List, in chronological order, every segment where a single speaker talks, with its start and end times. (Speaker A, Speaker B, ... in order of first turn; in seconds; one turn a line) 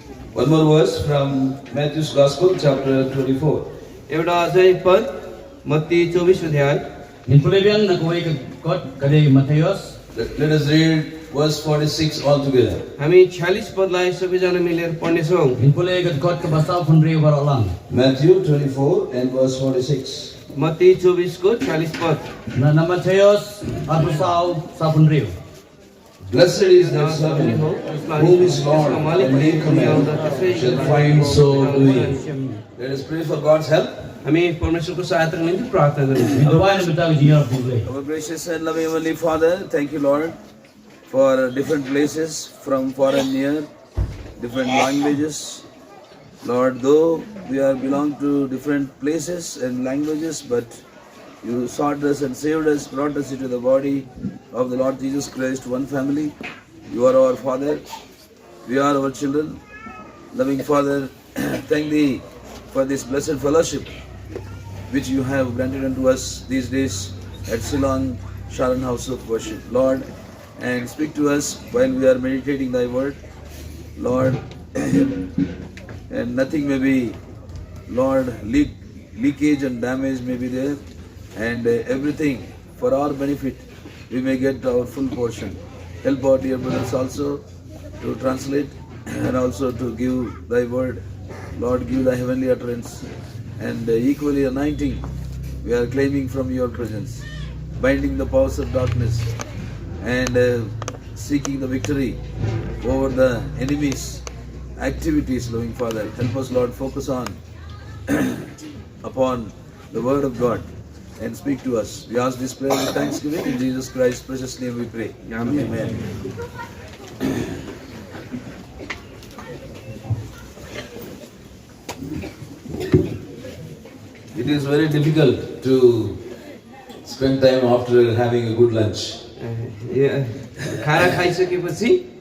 Speaker A: 0.3-3.7
Speaker B: 4.1-6.8
Speaker C: 7.3-9.9
Speaker A: 10.1-12.9
Speaker B: 13.0-15.6
Speaker C: 15.6-17.8
Speaker A: 17.9-20.3
Speaker B: 20.6-22.3
Speaker C: 22.6-25.3
Speaker A: 26.3-32.1
Speaker B: 26.8-32.2
Speaker C: 31.9-32.6
Speaker A: 32.8-34.1
Speaker B: 34.2-36.7
Speaker C: 36.3-37.9
Speaker A: 37.8-40.4
Speaker A: 41.1-43.7
Speaker A: 44.4-45.6
Speaker A: 46.4-50.8
Speaker A: 51.4-56.4
Speaker A: 56.9-57.8
Speaker A: 58.6-59.6
Speaker A: 60.3-64.0
Speaker A: 64.9-73.2
Speaker A: 74.0-75.3
Speaker A: 76.1-77.2
Speaker A: 77.9-80.8
Speaker A: 81.3-87.4
Speaker A: 88.0-91.0
Speaker A: 91.5-93.0
Speaker A: 93.6-95.0
Speaker A: 95.6-97.2
Speaker A: 97.8-99.3
Speaker A: 100.0-102.2
Speaker A: 102.8-104.2
Speaker A: 104.8-107.4
Speaker A: 108.1-110.7
Speaker A: 111.2-116.0
Speaker B: 115.3-115.8
Speaker A: 124.3-126.2
Speaker A: 127.0-129.2
Speaker B: 129.4-132.0
Speaker A: 130.6-131.2